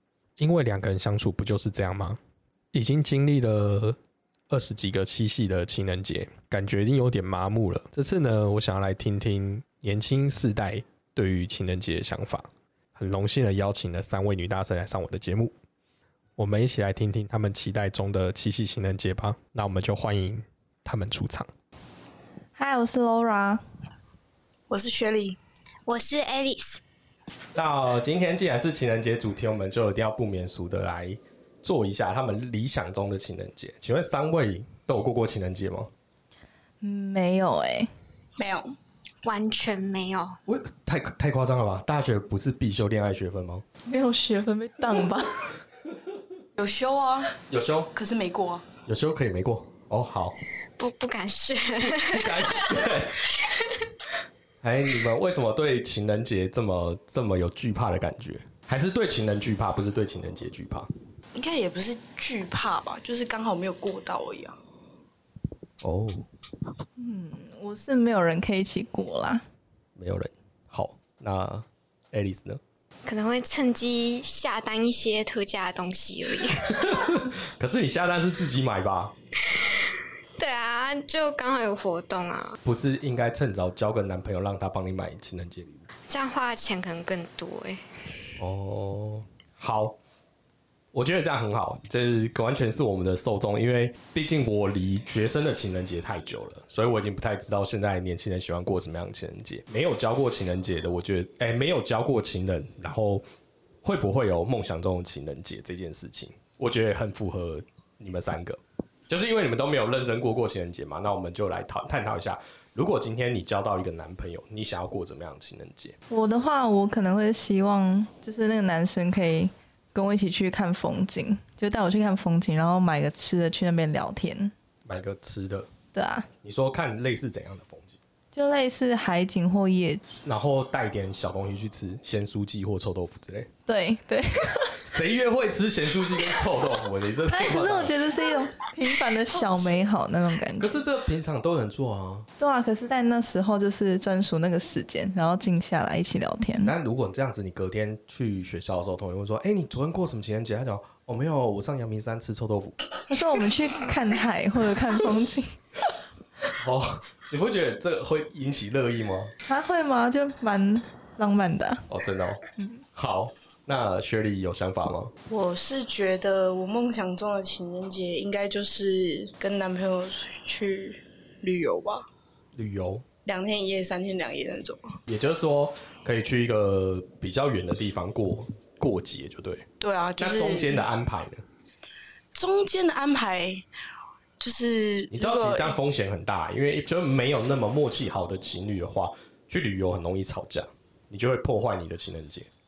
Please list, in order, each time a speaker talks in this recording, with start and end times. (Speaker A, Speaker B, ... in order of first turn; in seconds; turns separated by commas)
Speaker A: 0.4-2.2, Speaker A: 2.7-4.0, Speaker A: 4.5-15.5, Speaker A: 16.4-21.5, Speaker B: 22.6-23.6, Speaker C: 24.7-25.4, Speaker D: 25.9-26.8, Speaker A: 27.6-35.9, Speaker B: 36.8-37.9, Speaker C: 38.4-38.8, Speaker D: 39.2-40.4, Speaker A: 40.5-43.6, Speaker B: 43.9-45.5, Speaker C: 46.6-47.3, Speaker A: 47.5-47.9, Speaker C: 48.0-48.7, Speaker A: 48.9-50.4, Speaker D: 50.8-53.9, Speaker A: 51.8-53.3, Speaker A: 54.6-60.9, Speaker C: 61.4-64.6, Speaker A: 65.8-66.3, Speaker B: 67.0-69.4, Speaker A: 70.0-72.6, Speaker D: 73.0-77.1, Speaker A: 76.7-79.2, Speaker D: 80.4-82.6, Speaker A: 82.7-85.8, Speaker D: 86.1-88.0, Speaker A: 88.4-90.0, Speaker A: 90.9-103.2, Speaker A: 103.8-116.0, Speaker B: 116.1-124.5, Speaker A: 124.9-125.7, Speaker B: 125.9-126.3, Speaker A: 126.4-128.0, Speaker B: 128.3-130.0, Speaker A: 130.1-133.5, Speaker B: 133.7-134.8, Speaker A: 134.8-137.9, Speaker B: 137.3-140.8, Speaker A: 140.6-142.3, Speaker B: 142.4-146.8, Speaker A: 146.6-152.8, Speaker B: 153.1-155.6, Speaker A: 156.6-159.3, Speaker B: 159.5-161.9, Speaker A: 161.9-162.4, Speaker A: 162.9-165.1, Speaker C: 165.3-172.1, Speaker A: 172.6-173.0, Speaker C: 173.2-175.0, Speaker A: 175.1-179.7, Speaker C: 179.8-180.8, Speaker A: 180.2-181.4, Speaker C: 182.3-183.7, Speaker C: 184.4-185.8, Speaker A: 185.1-192.5